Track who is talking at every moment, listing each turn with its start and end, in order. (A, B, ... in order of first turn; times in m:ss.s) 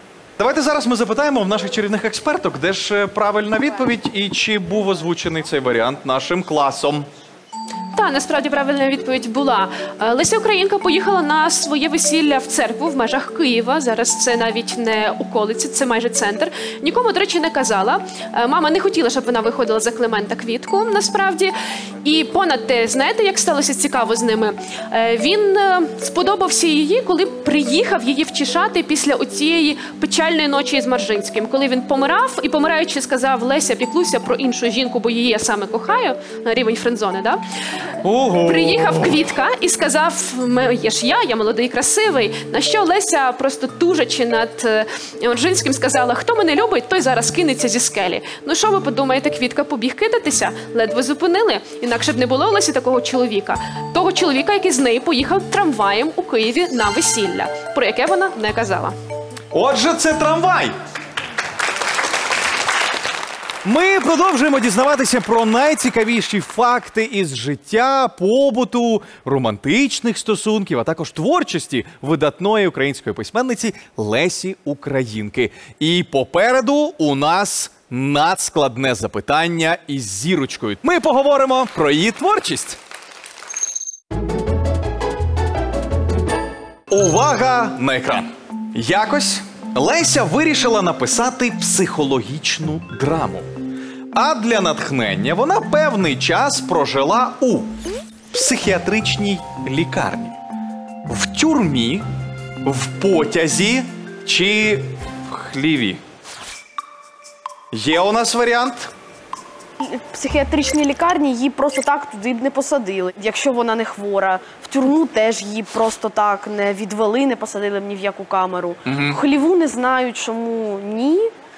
0:00.4-0:07.1 A
0:07.9-0:37.4 B
0:38.0-0:39.2 A
0:38.4-0:59.0 B
0:59.5-1:00.7 A
1:03.6-1:22.8 A
1:26.9-1:33.5 A
1:34.1-1:37.7 A
1:38.3-1:40.4 A
1:41.1-1:42.0 A
1:42.6-1:46.0 A
1:47.7-1:48.9 A
1:49.8-2:01.3 C
1:58.8-1:59.2 A